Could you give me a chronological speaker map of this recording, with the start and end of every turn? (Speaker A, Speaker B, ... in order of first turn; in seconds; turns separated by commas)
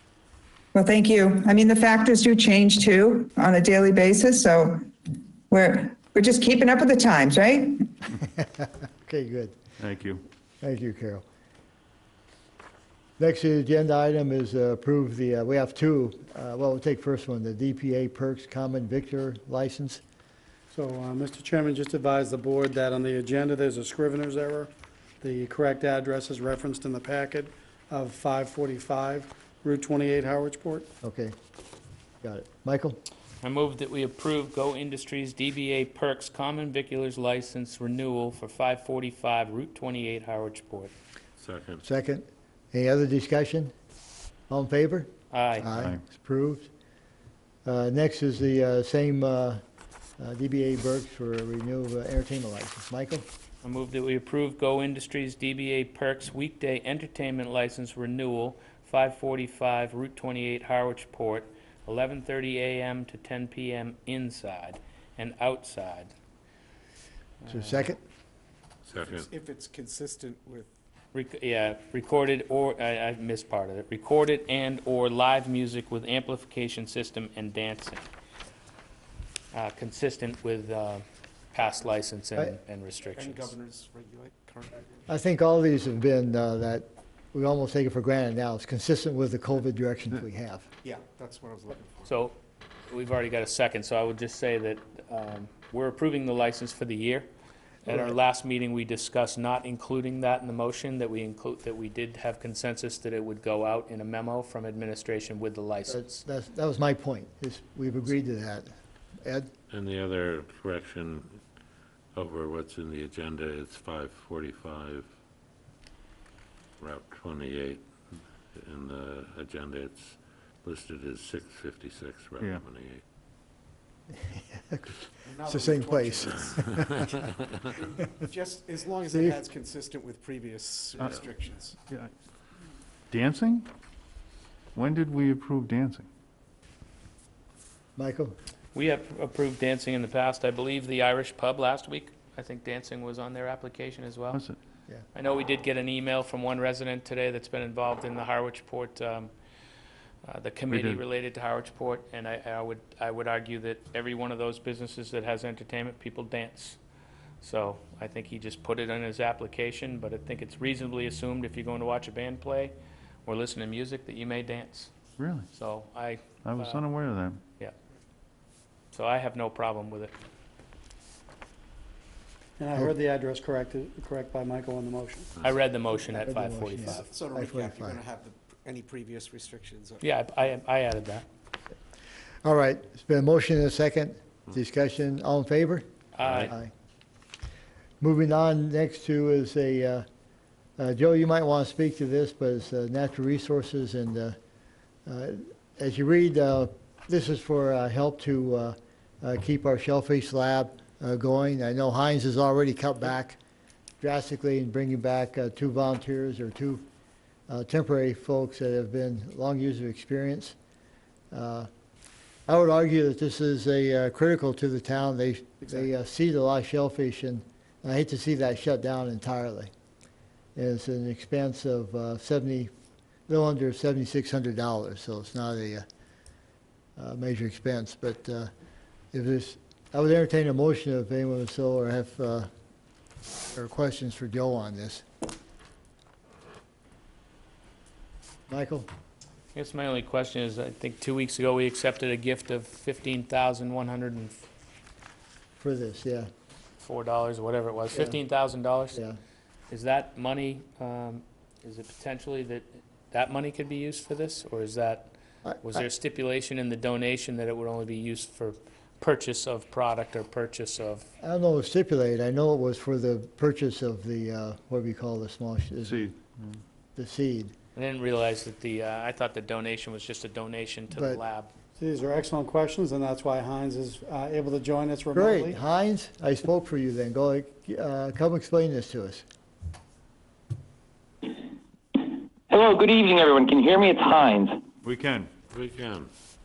Speaker A: 0.7-4.9, Speaker A: 5.5-7.9, Speaker B: 9.0-9.6, Speaker C: 9.8-10.2, Speaker B: 10.6-11.2, Speaker B: 13.2-20.0, Speaker D: 20.7-30.9, Speaker B: 31.0-31.4, Speaker B: 32.2-33.0, Speaker E: 33.4-40.9, Speaker F: 41.4-41.8, Speaker B: 41.8-43.7, Speaker B: 44.5-46.7, Speaker E: 45.3-45.7, Speaker B: 47.6-49.6, Speaker B: 50.2-53.3, Speaker E: 53.6-66.1, Speaker B: 67.5-68.0, Speaker F: 68.9-69.3, Speaker G: 69.0-70.7, Speaker E: 71.1-78.1, Speaker E: 79.5-83.5, Speaker G: 83.1-84.9, Speaker B: 85.1-90.7, Speaker G: 90.8-92.1, Speaker E: 92.0-92.4, Speaker E: 92.9-97.3, Speaker E: 97.8-106.2, Speaker B: 105.9-109.5, Speaker F: 109.7-111.4, Speaker F: 112.1-115.1, Speaker F: 116.8-117.8, Speaker F: 118.5-123.0, Speaker B: 124.2-127.1, Speaker G: 125.3-126.8, Speaker G: 127.8-131.8, Speaker C: 131.8-132.1, Speaker C: 133.1-133.7, Speaker C: 134.8-136.1, Speaker B: 138.0-138.3, Speaker E: 138.8-144.4, Speaker E: 145.1-149.3, Speaker E: 150.2-156.8, Speaker C: 150.7-151.0, Speaker E: 157.4-162.7, Speaker E: 163.3-166.8, Speaker C: 165.2-165.5, Speaker C: 166.4-167.4, Speaker E: 168.9-170.1, Speaker D: 172.6-175.3, Speaker E: 175.4-177.1, Speaker B: 176.2-178.0, Speaker G: 176.9-180.0, Speaker E: 180.0-181.2, Speaker B: 182.4-186.7, Speaker E: 186.2-186.5, Speaker B: 188.0-190.1, Speaker B: 190.8-194.4, Speaker B: 195.1-203.4, Speaker B: 204.0-206.8, Speaker B: 207.5-210.6, Speaker B: 211.3-211.7, Speaker B: 212.5-219.7, Speaker B: 220.6-222.7, Speaker B: 223.3-225.8, Speaker B: 227.0-228.5, Speaker B: 229.1-232.5, Speaker B: 233.5-235.0, Speaker B: 238.5-238.9, Speaker E: 239.6-244.4, Speaker B: 245.6-246.3, Speaker E: 246.8-249.0, Speaker E: 249.7-261.1, Speaker B: 261.2-266.1, Speaker C: 265.8-266.6, Speaker B: 267.0-267.5, Speaker E: 267.8-271.5, Speaker B: 270.9-271.2, Speaker D: 271.8-275.6, Speaker B: 275.1-279.2, Speaker H: 282.5-284.6, Speaker C: 284.8-285.3, Speaker F: 285.5-286.1